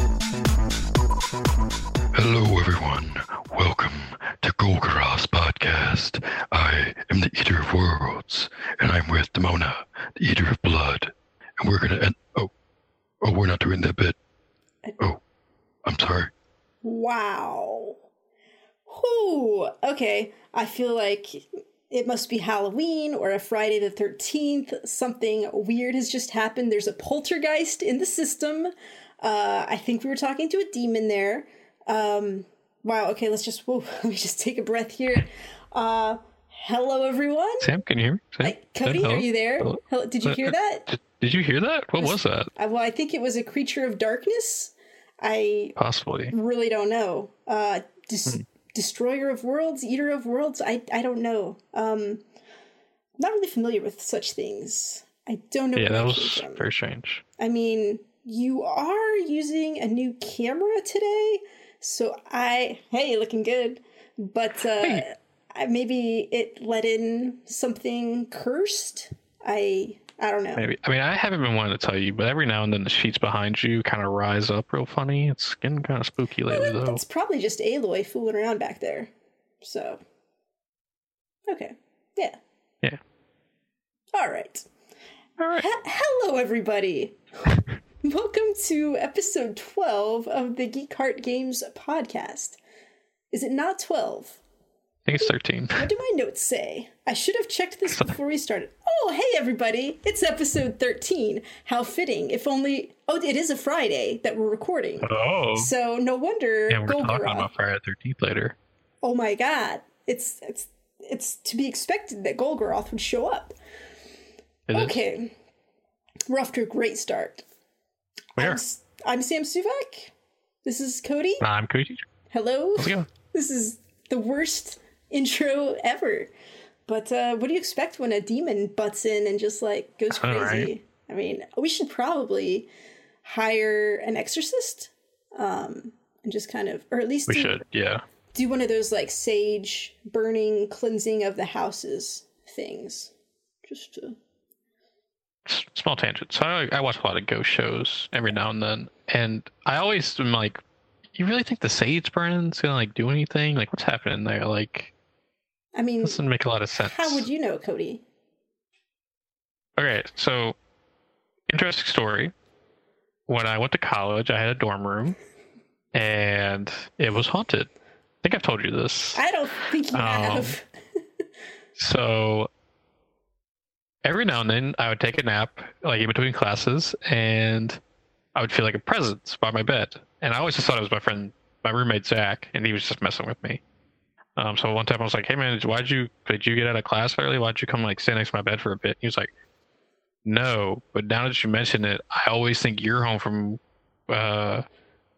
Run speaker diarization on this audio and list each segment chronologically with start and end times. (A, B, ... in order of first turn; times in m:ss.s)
0:02.1-0:12.5 A
0:13.2-0:14.2 A
0:15.8-0:16.3 A
0:16.8-0:18.0 B
0:18.9-0:37.7 B
0:37.6-0:42.5 C
0:38.4-0:40.8 B
0:42.0-0:45.8 B
0:45.8-0:46.3 C
0:46.3-0:52.2 B
0:53.2-0:56.7 B
0:55.8-0:57.2 C
0:57.4-1:10.6 B
1:10.6-1:17.0 C
1:16.5-1:19.1 B
1:19.6-1:20.0 B
1:21.5-1:22.4 B
1:24.1-1:24.7 B
1:25.4-1:25.6 C
1:25.5-1:32.6 B
1:33.3-1:34.4 B
1:35.0-1:35.9 C
1:35.2-1:47.5 B
1:45.0-1:45.7 C
1:46.7-1:48.6 C
1:49.0-1:53.6 B
1:54.7-1:55.0 C
1:54.7-1:55.3 B
1:56.3-1:57.4 B
1:58.4-2:00.1 B
2:00.6-2:01.4 B
2:01.4-2:02.0 C
2:02.3-2:06.3 B
2:02.8-2:03.1 C
2:06.9-2:12.7 B
2:10.1-2:10.7 C
2:13.2-2:17.6 B
2:17.3-2:18.0 C
2:18.3-2:23.1 B
2:23.6-2:24.2 B
2:25.4-2:30.6 C
2:31.1-2:34.9 C
2:35.8-2:36.2 B
2:36.0-2:37.3 C
2:36.8-2:38.0 B
2:39.8-2:40.6 C
2:41.5-2:42.3 C
2:43.3-2:45.2 C
2:45.9-2:47.7 C
2:48.2-2:49.2 C
2:49.1-2:50.7 B
2:49.9-2:50.6 C
2:51.8-2:52.5 C
2:54.0-2:57.8 C
2:58.3-3:03.6 C
3:04.4-3:09.3 C
3:10.2-3:14.6 C